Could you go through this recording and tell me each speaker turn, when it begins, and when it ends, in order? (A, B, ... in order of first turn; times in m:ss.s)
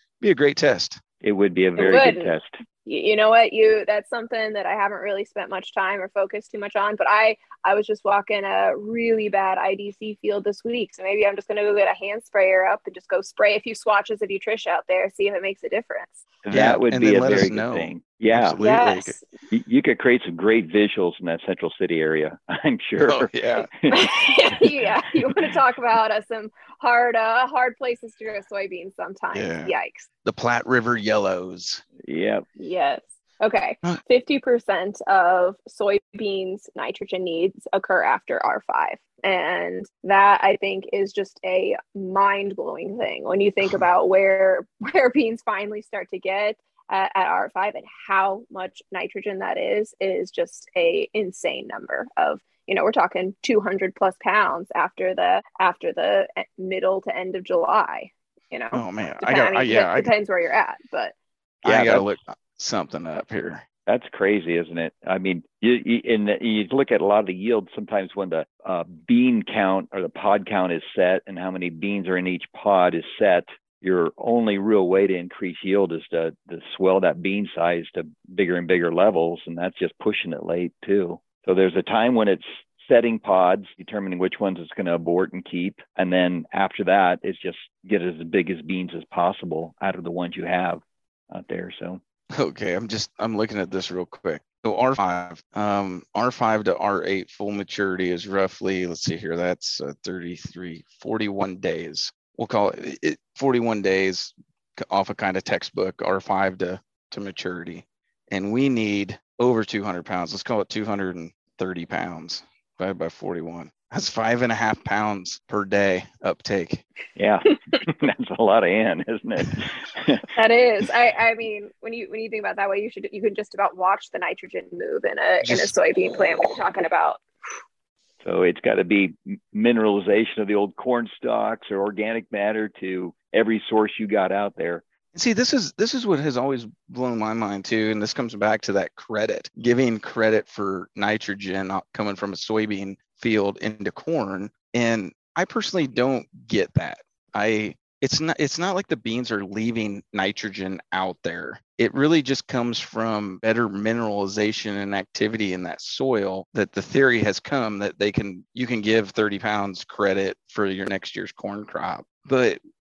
0:00.2-0:01.0 A
0:01.2-0:02.6 B
0:01.8-0:16.3 C
0:16.4-0:18.6 B
0:16.5-0:19.2 A
0:18.6-0:19.3 C
0:19.5-0:24.2 B
0:23.0-0:23.7 A
0:23.9-0:30.1 C
0:29.3-0:29.7 A
0:30.2-0:31.8 A
0:32.0-0:32.4 B
0:32.6-1:01.1 C
0:58.7-1:00.1 A
1:01.6-1:02.0 B
1:01.6-1:03.6 A
1:03.9-1:32.0 B
1:32.3-1:56.8 A
1:57.2-2:00.3 B
2:00.4-2:07.2 C
2:05.4-2:06.2 A
2:08.2-2:14.8 B
2:15.1-2:42.6 A